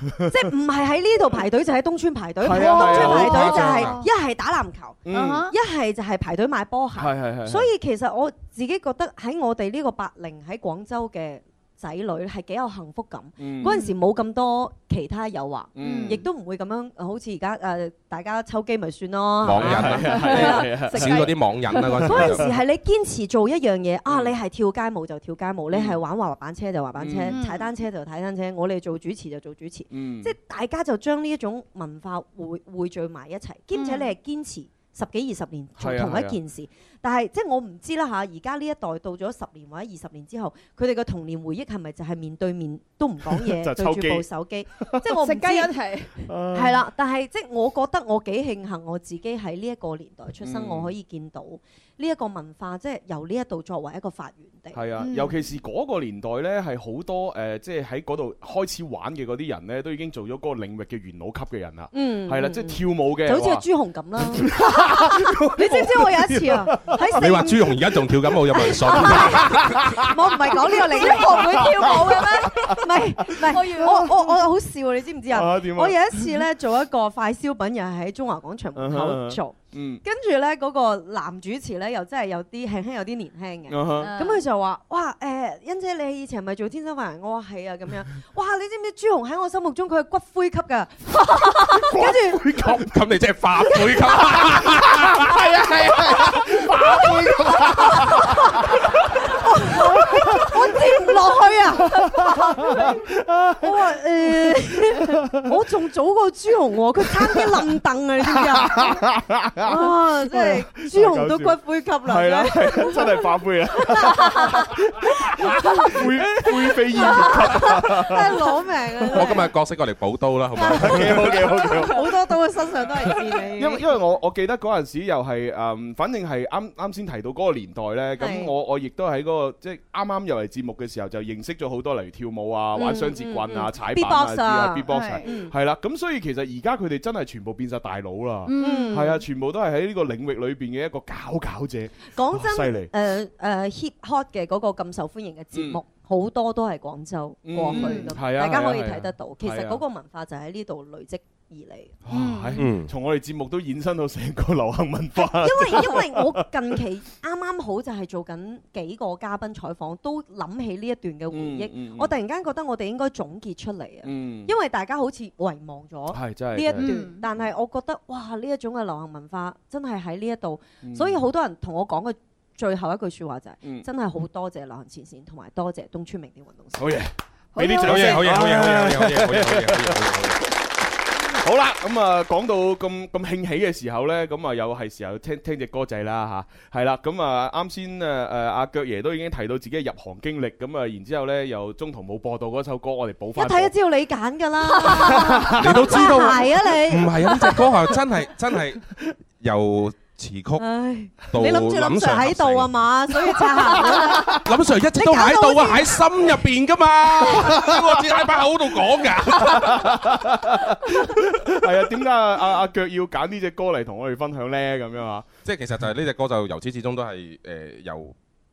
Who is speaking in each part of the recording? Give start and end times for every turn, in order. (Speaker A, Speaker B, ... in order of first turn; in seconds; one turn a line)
Speaker A: 0.3-20.8
Speaker B: 2.4-4.0
Speaker C: 2.6-4.1
Speaker B: 5.1-5.5
Speaker C: 5.1-5.5
Speaker B: 7.0-7.7
Speaker B: 13.4-13.8
Speaker C: 13.7-13.9
Speaker B: 15.8-16.2
Speaker C: 15.8-16.2
Speaker D: 19.4-22.5
Speaker B: 19.5-22.5
Speaker C: 20.0-21.7
Speaker A: 22.1-45.7
Speaker B: 24.1-24.4
Speaker B: 25.7-26.0
Speaker B: 27.0-27.4
Speaker C: 27.3-27.7
Speaker B: 29.9-30.3
Speaker C: 33.7-34.1
Speaker B: 35.8-36.4
Speaker B: 43.4-44.2
Speaker B: 44.8-45.1
Speaker C: 45.1-46.3
Speaker B: 46.3-46.9
Speaker A: 46.5-54.8
Speaker B: 50.4-50.9
Speaker B: 54.7-63.6
Speaker C: 55.0-55.4
Speaker A: 61.9-67.8
Speaker B: 64.4-67.2
Speaker D: 67.1-70.0
Speaker A: 68.5-92.4
Speaker B: 68.9-74.2
Speaker C: 70.9-72.8
Speaker C: 73.5-74.1
Speaker B: 75.3-76.3
Speaker B: 78.8-80.0
Speaker B: 83.7-84.1
Speaker C: 84.0-84.4
Speaker B: 91.7-92.9
Speaker D: 92.6-95.5
Speaker B: 94.5-101.0
Speaker D: 96.1-96.7
Speaker C: 97.8-98.1
Speaker A: 99.2-103.0
Speaker B: 101.9-103.8
Speaker A: 103.6-109.0
Speaker B: 107.2-107.5
Speaker B: 108.3-119.4
Speaker A: 109.6-113.1
Speaker A: 114.0-114.5
Speaker A: 115.5-116.5
Speaker A: 117.0-119.5
Speaker D: 119.1-121.5
Speaker A: 120.6-123.8
Speaker B: 120.6-122.2
Speaker B: 123.4-142.9
Speaker A: 128.2-128.5
Speaker A: 132.7-135.5
Speaker C: 134.9-135.3
Speaker C: 138.4-138.9
Speaker A: 138.6-139.2
Speaker A: 142.1-152.0
Speaker B: 145.5-145.8
Speaker B: 147.4-149.8
Speaker C: 147.7-148.1
Speaker B: 152.1-156.5
Speaker C: 152.1-152.7
Speaker D: 152.6-152.9
Speaker A: 155.2-176.9
Speaker B: 161.3-162.1
Speaker B: 164.0-164.5
Speaker B: 166.1-167.1
Speaker C: 166.8-167.2
Speaker B: 170.8-171.2
Speaker B: 176.8-180.2
Speaker C: 177.6-178.3
Speaker D: 177.8-180.4
Speaker B: 181.1-193.7
Speaker A: 193.4-197.5
Speaker B: 194.8-196.0
Speaker D: 195.6-200.6
Speaker A: 200.6-204.4
Speaker D: 201.3-202.7
Speaker D: 204.1-210.0
Speaker A: 205.0-206.0
Speaker B: 209.4-215.3
Speaker D: 215.4-218.2